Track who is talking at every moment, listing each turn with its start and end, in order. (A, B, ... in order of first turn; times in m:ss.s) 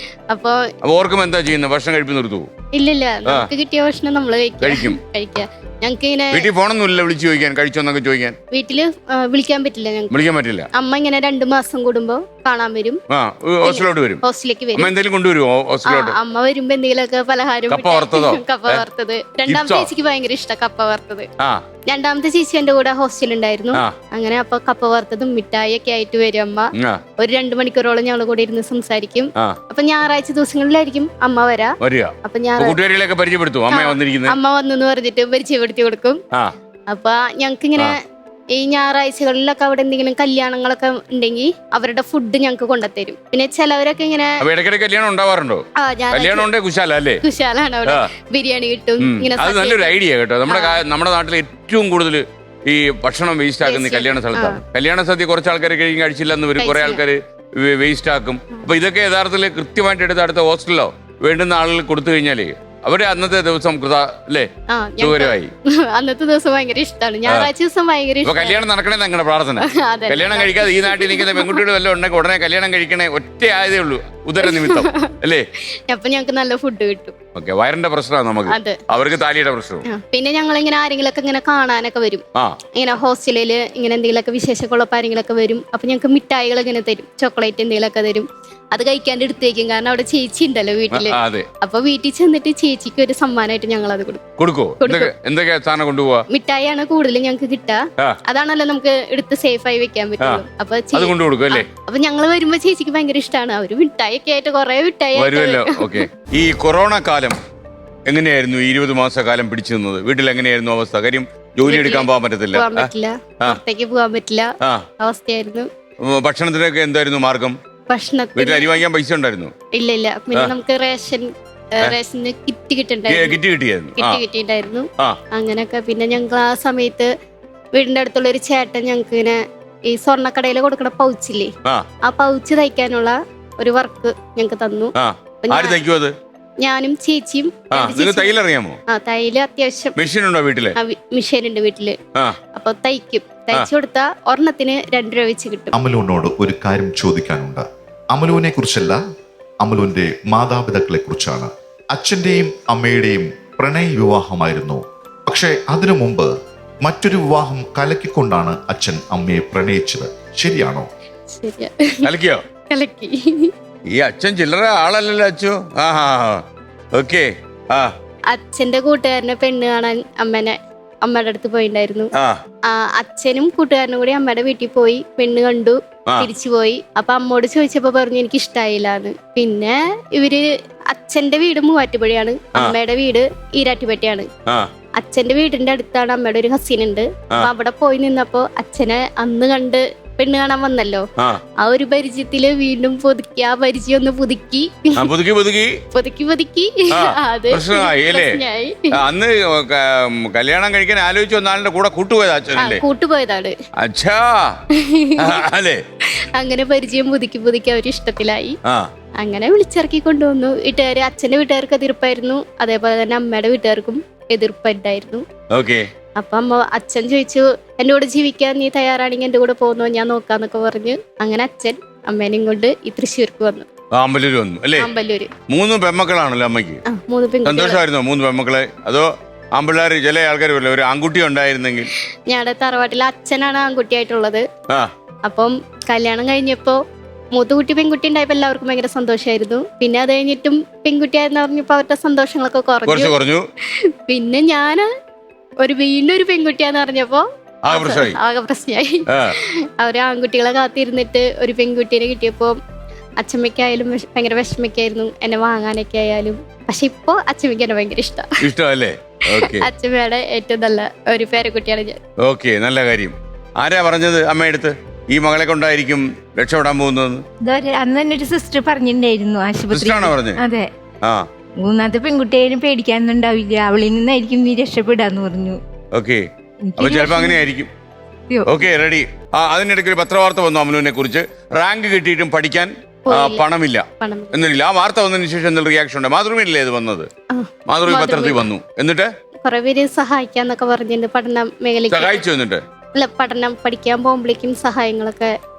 0:00.3-0:00.6 A
0:00.8-0:02.5 B
0:02.8-0:06.5 A
0:04.6-0:05.0 B
0:06.3-0:08.4 B
0:08.5-0:10.1 A
0:10.1-0:10.7 B
0:10.7-0:13.0 A
0:13.1-0:14.2 B
0:13.6-0:14.9 A
0:14.8-0:16.2 B
0:15.9-0:21.3 A
0:17.7-0:18.8 B
0:19.5-0:19.9 B
0:21.9-0:32.8 A
0:26.8-0:27.0 B
0:31.8-0:34.4 B
0:33.7-0:36.2 A
0:36.9-0:38.0 A
0:38.6-0:44.4 A
0:44.4-0:47.2 B
0:45.8-0:46.5 A
0:47.2-0:50.0 A
0:49.0-1:05.5 B
0:50.5-0:50.8 A
0:53.6-0:54.6 A
0:56.6-0:57.0 A
1:04.7-1:05.4 A
1:05.9-1:08.6 A
1:08.2-1:15.5 B
1:09.7-1:11.6 A
1:14.4-1:15.1 A
1:15.9-1:17.2 A
1:17.4-1:19.9 B
1:18.5-1:18.8 A
1:19.9-1:22.2 A
1:22.8-1:34.2 A
1:30.9-1:31.5 B
1:34.4-1:36.2 B
1:34.8-1:35.1 A
1:36.3-1:46.0 A
1:40.9-1:41.7 B
1:45.2-1:47.4 B
1:48.1-1:52.9 B
1:51.6-1:54.5 A
1:55.0-1:55.7 A
1:56.0-1:57.6 B
1:57.9-1:58.8 A
1:58.4-1:59.5 B
1:59.8-2:03.4 A
2:03.1-2:04.2 B
2:04.0-2:07.1 A
2:07.8-2:09.4 A
2:09.9-2:11.5 A
2:12.1-2:15.8 A
2:15.0-2:16.1 B
2:16.6-2:18.4 A
2:17.7-2:18.8 B
2:18.9-2:20.0 A
2:20.0-2:20.8 B
2:20.8-2:22.0 A
2:22.6-2:25.7 A
2:25.7-2:29.0 C
2:29.6-2:40.9 C
2:41.4-2:42.0 A
2:42.0-2:42.4 B
2:42.7-2:43.5 A
2:43.9-2:47.9 B
2:48.3-2:52.1 A
2:52.7-3:04.3 A
3:05.0-3:11.0 A
3:11.6-3:15.1 A
3:15.0-3:15.8 B
3:15.9-3:18.9 A
3:16.9-3:18.4 B
3:18.9-3:22.8 B
3:22.6-3:23.6 A
3:23.8-3:24.6 B
3:24.7-3:25.4 A
3:25.2-3:25.8 B
3:26.4-3:28.6 A
3:29.2-3:35.2 A
3:35.5-3:35.9 B
3:36.2-3:43.7 A
3:43.9-3:44.9 B
3:44.8-3:45.3 A
3:45.5-3:46.8 B
3:46.9-3:47.8 A
3:47.4-3:51.9 B
3:52.3-3:54.5 A
3:55.3-3:56.8 A
3:57.4-4:03.1 A
4:02.9-4:03.4 B
4:04.1-4:04.9 A
4:05.6-4:12.6 A
4:07.7-4:08.2 B
4:09.1-4:09.3 B
4:13.2-4:18.4 A
4:18.4-4:19.7 B
4:19.4-4:22.0 A
4:22.2-4:27.2 B
4:27.4-4:30.7 D
4:29.7-4:30.4 B
4:31.6-4:35.6 D
4:35.9-4:36.2 B
4:36.7-4:37.4 D
4:36.8-4:37.7 B
4:38.3-4:38.6 D
4:38.4-4:47.1 B
4:43.1-4:43.4 A
4:44.0-4:44.4 A
4:47.3-4:48.5 A
4:47.7-4:49.1 B
4:49.4-4:52.2 A
4:51.9-4:52.6 B
4:53.0-4:55.3 A